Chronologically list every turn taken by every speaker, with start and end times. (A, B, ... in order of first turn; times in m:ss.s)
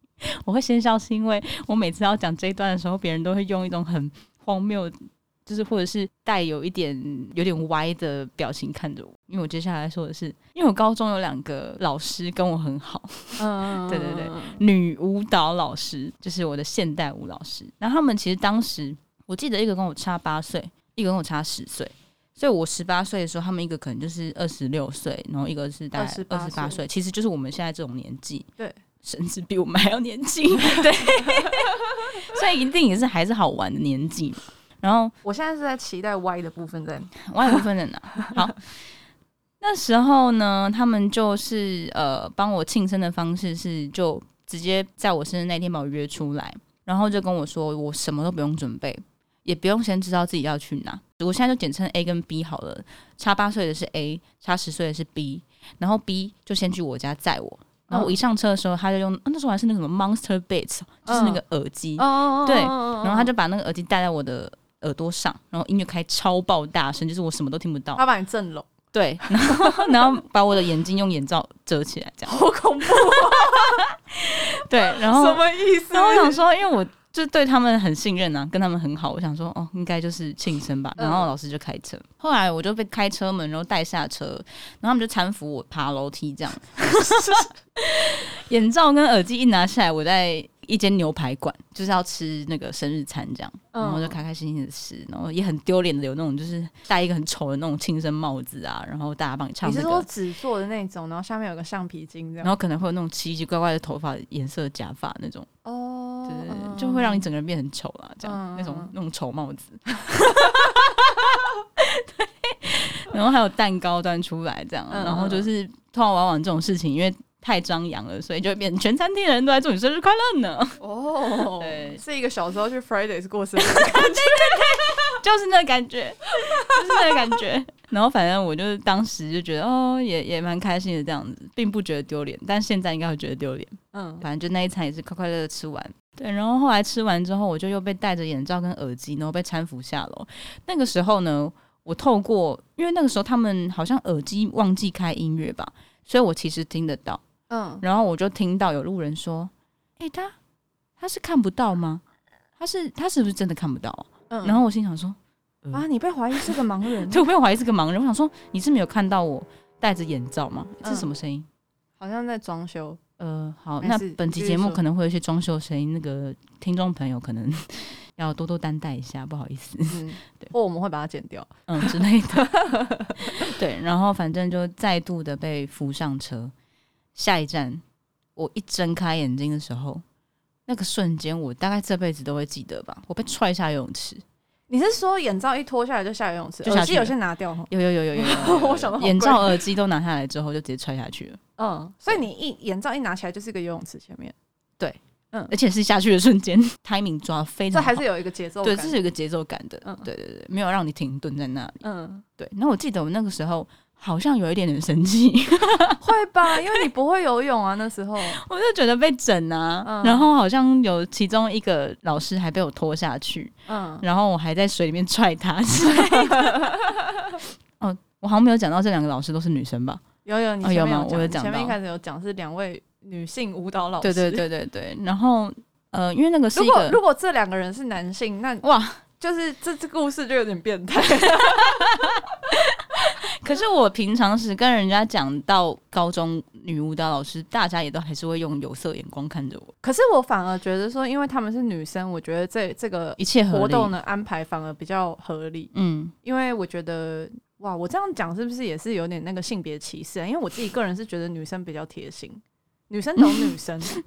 0:00.2-0:28.5 A
0:13.4-0:14.6 B
0:26.0-0:26.8 B
0:29.0-0:35.2 A
0:30.8-0:31.6 B
0:35.2-0:37.6 B
0:37.2-0:38.6 A
0:39.6-1:08.0 A
0:57.9-0:58.2 B
1:01.1-1:01.4 B
1:02.0-1:03.3 B
1:08.0-1:08.7 B
1:08.9-1:40.1 A
1:09.4-1:10.1 B
1:12.3-1:13.8 B
1:14.9-1:16.4 B
1:21.0-1:21.3 B
1:27.1-1:27.5 B
1:33.7-1:34.2 B
1:39.6-1:42.5 B
1:42.4-1:45.5 A
1:45.6-1:47.3 B
1:46.3-2:00.8 A
1:48.2-1:48.9 B
1:54.9-1:55.5 B
2:00.8-2:05.2 B
2:01.4-2:02.0 A
2:03.6-2:27.2 A
2:06.8-2:07.1 B
2:13.9-2:14.2 B
2:27.5-2:27.8 B
2:27.8-2:30.4 A
2:31.0-2:32.0 A
2:32.6-2:41.5 A
2:34.3-2:34.6 B
2:35.7-2:37.2 B
2:40.8-2:41.1 B
2:42.0-2:43.0 B
2:43.2-2:50.5 A
2:43.8-2:44.8 B
2:49.9-2:53.4 B
2:51.7-2:52.5 A
2:53.2-2:56.5 A
2:57.2-2:57.8 A
2:58.4-3:00.0 A
3:00.7-3:04.2 A
3:04.7-3:09.6 B
3:06.6-3:07.2 A
3:07.7-3:11.4 A
3:11.6-3:14.4 B
3:14.8-3:18.0 A
3:17.7-3:19.0 B
3:18.6-3:21.8 A
3:21.8-3:22.2 B
3:22.4-3:26.0 A
3:26.0-3:28.4 B
3:28.3-3:36.8 A
3:29.8-3:30.3 B
3:33.7-3:34.0 B
3:36.0-3:37.2 B
3:37.8-3:40.0 A
3:40.2-3:44.4 B
3:40.6-3:41.8 A
3:44.0-3:47.0 A
3:46.6-3:48.6 B
3:48.6-3:49.0 A
3:49.2-3:52.2 B
3:51.4-3:59.7 A
3:59.8-4:05.7 B
4:03.2-4:03.9 A
4:05.7-4:06.1 A
4:06.2-4:14.0 B